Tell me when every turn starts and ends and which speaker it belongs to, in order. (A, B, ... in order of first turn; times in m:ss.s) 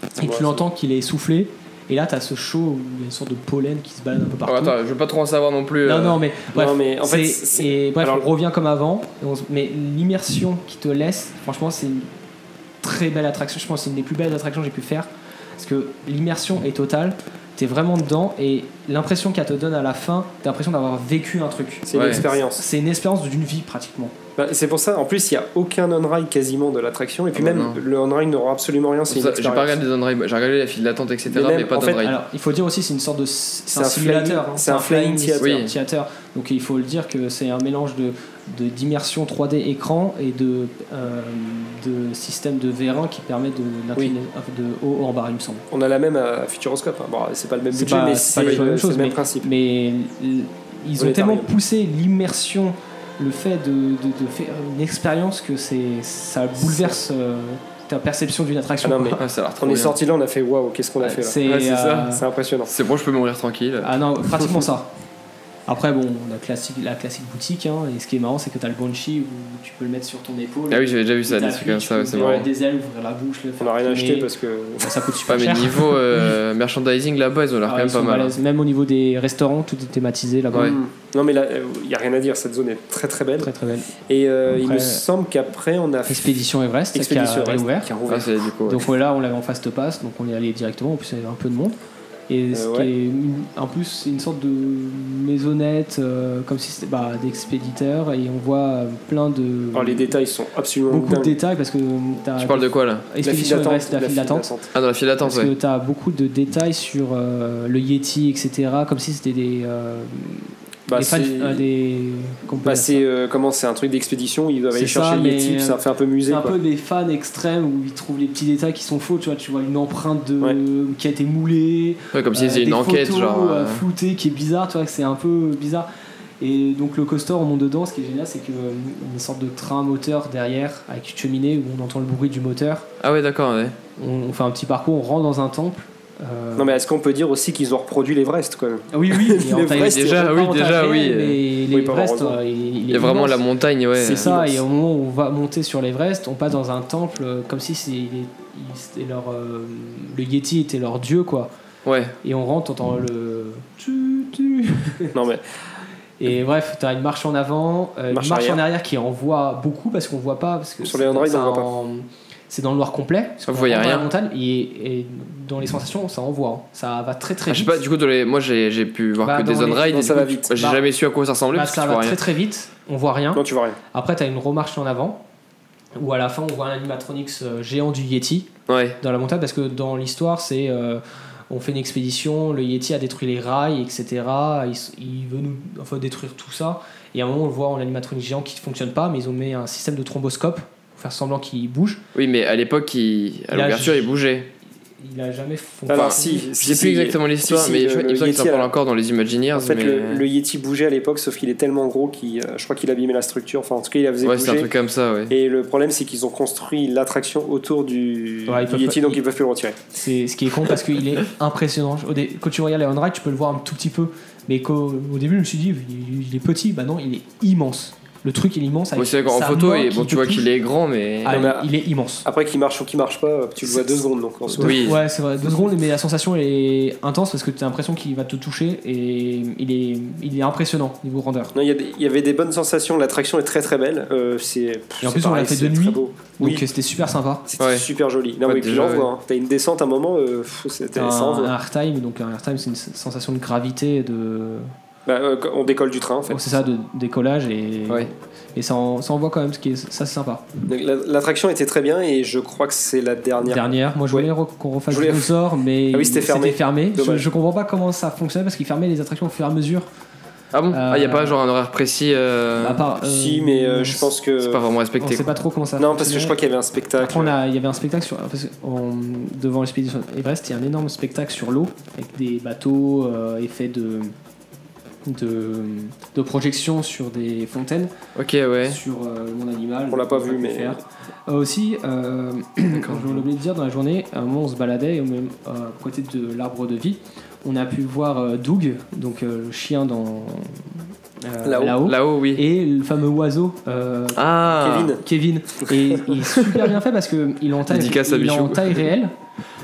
0:00.2-0:04.7 A
0:00.2-0:00.6 B
0:04.4-0:06.2 C
0:05.8-0:12.1 A
0:06.5-0:08.2 B
0:12.8-0:24.1 A
0:21.9-0:22.6 B
0:21.9-0:22.2 C
0:24.4-0:29.8 B
0:27.3-0:27.8 C
0:29.1-0:32.2 C
0:31.3-0:32.0 B
0:32.0-0:45.6 A
0:33.7-0:35.7 B
0:35.4-0:35.7 C
0:45.7-0:49.5 B
0:47.7-0:59.2 A
0:51.0-0:51.5 B
0:56.6-0:56.9 B
0:58.8-1:01.4 B
0:59.2-1:00.0 C
1:01.0-1:02.2 A
1:01.4-1:02.1 C
1:02.1-1:02.7 B
1:02.7-1:04.0 C
1:03.8-1:04.9 A
1:05.7-1:16.4 A
1:10.7-1:12.5 C
1:12.2-1:12.5 B
1:13.6-1:15.0 B
1:15.3-1:18.4 C
1:17.6-1:20.8 A
1:20.5-1:23.5 B
1:23.4-1:23.9 A
1:24.1-1:26.4 B
1:24.5-1:25.0 A
1:26.1-1:27.9 A
1:26.9-1:28.5 B
1:28.1-1:28.9 C
1:28.7-1:31.8 A
1:32.3-1:40.2 A
1:32.5-1:32.9 B
1:39.7-1:41.4 B
1:40.9-1:44.5 A
1:42.4-1:43.1 C
1:43.2-1:44.7 B
1:44.7-1:45.5 C
1:45.2-1:53.0 A
1:50.9-1:51.6 B
1:52.6-1:56.6 B
1:54.7-2:05.9 A
2:02.1-2:03.8 C
2:06.4-2:12.9 A
2:13.0-2:13.8 C
2:14.0-2:16.8 A
2:16.6-2:20.3 B
2:18.9-2:23.4 A
2:19.7-2:21.4 C
2:21.7-2:22.4 B
2:22.9-2:24.3 C
2:24.0-2:31.5 A
2:24.0-2:24.6 B
2:31.8-2:32.1 C
2:32.2-2:35.1 A
2:35.1-2:35.4 B
2:36.2-2:47.8 A
2:38.1-2:38.6 B
2:40.8-2:41.7 B
2:43.5-2:44.1 C
2:47.5-2:52.2 C
2:49.2-2:50.8 A
2:49.9-2:50.5 B
2:51.5-2:55.2 A
2:53.3-2:53.8 B
2:55.9-3:12.0 A
2:58.7-2:59.0 C
3:12.1-3:14.5 C
3:13.5-3:14.1 A
3:15.0-3:16.5 A
3:15.9-3:18.7 B
3:15.9-3:20.2 C
3:19.5-3:24.7 B
3:24.2-3:25.3 C
3:25.3-3:29.8 B
3:28.5-3:29.2 A
3:29.9-3:40.5 A
3:39.0-3:41.4 C
3:41.2-3:42.3 A
3:41.3-3:41.7 B
3:42.2-3:45.0 B
3:43.6-3:51.5 A
3:44.6-3:45.0 C
3:51.5-3:56.6 B
3:55.0-3:57.4 A
3:57.5-4:01.5 B
3:57.6-3:57.9 C
3:58.4-3:59.1 C
4:01.0-4:04.7 A
4:05.0-4:06.6 B
4:06.3-4:10.4 A
4:10.7-4:14.3 B
4:13.4-4:19.9 A
4:14.9-4:15.3 B
4:15.9-4:17.3 B
4:20.5-4:22.8 C
4:20.7-4:21.4 A
4:22.6-4:24.1 A
4:23.0-4:24.6 B
4:24.4-4:25.3 C
4:25.0-4:26.4 A
4:25.8-4:27.4 B
4:27.0-4:34.1 A
4:35.0-4:37.9 A
4:38.2-4:38.8 C
4:38.6-4:54.2 A
4:39.9-4:40.8 B
4:42.7-4:43.2 C
4:51.4-4:51.8 B
4:51.8-4:52.4 C
4:54.2-4:54.9 C
4:54.6-4:55.0 B
4:55.0-4:59.1 A
4:55.9-4:56.2 B
4:57.7-4:58.9 C